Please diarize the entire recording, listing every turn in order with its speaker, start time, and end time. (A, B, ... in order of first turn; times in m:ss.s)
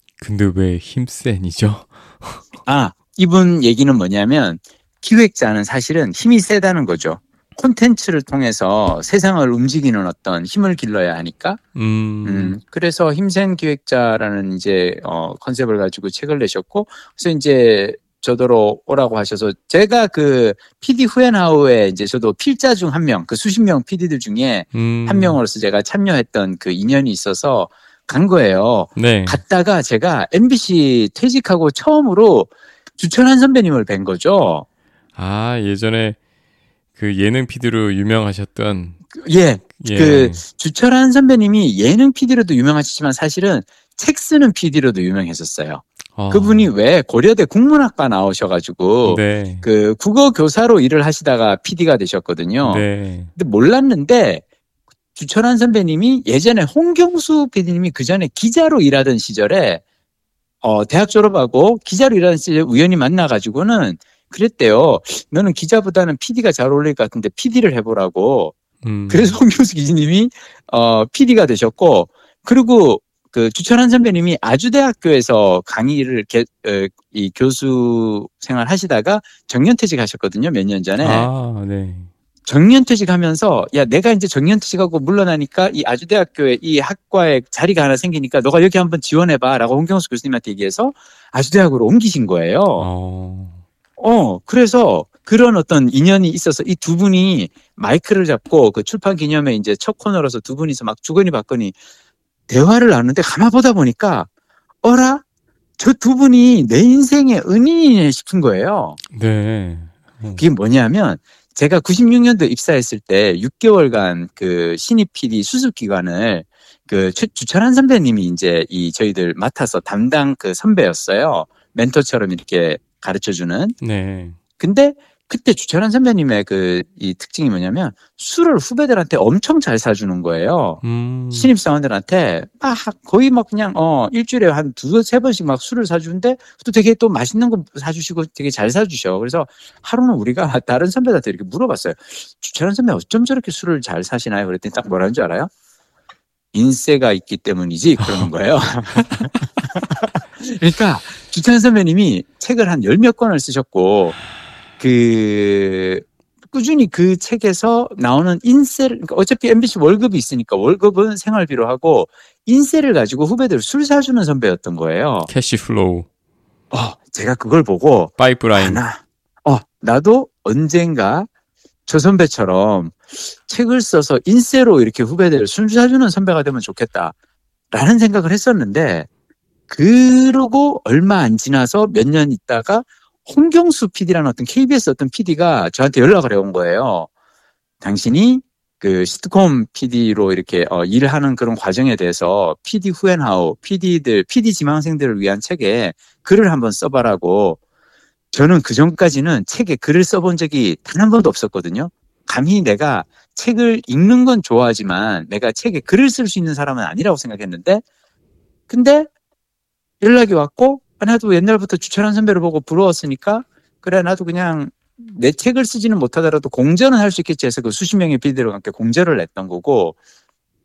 0:00.2-0:02.4 A
0:02.7-0:11.6 B
0:11.8-0:12.6 A
0:12.2-0:34.7 B
0:24.7-0:25.4 A
0:29.0-0:29.4 A
0:35.2-0:36.2 A
0:37.0-0:39.0 A
0:39.1-0:54.4 B
0:39.8-0:40.4 A
0:46.2-0:46.7 A
0:49.0-0:49.6 A
0:52.6-0:53.3 A
0:55.2-0:59.8 B
1:00.6-1:08.6 B
1:08.8-1:09.4 A
1:09.1-1:21.3 B
1:21.0-1:22.1 A
1:22.5-1:32.9 B
1:32.8-1:33.6 A
1:34.0-1:41.8 B
1:42.5-1:44.3 B
1:44.8-1:45.2 B
1:45.8-1:49.0 B
1:49.1-1:50.4 A
1:50.4-2:03.8 B
2:03.8-2:04.4 A
2:04.6-2:10.8 B
2:10.8-2:11.5 A
2:11.3-2:25.5 B
2:26.5-2:34.2 B
2:28.0-2:28.3 A
2:29.0-2:29.3 A
2:34.8-2:45.3 B
2:45.3-2:46.1 A
2:46.7-2:51.3 B
2:48.2-2:48.8 A
2:51.9-2:57.1 B
2:57.7-2:59.1 B
2:59.7-3:07.1 B
3:07.8-3:17.6 B
3:18.3-3:27.8 B
3:28.7-3:29.1 B
3:30.0-3:40.0 B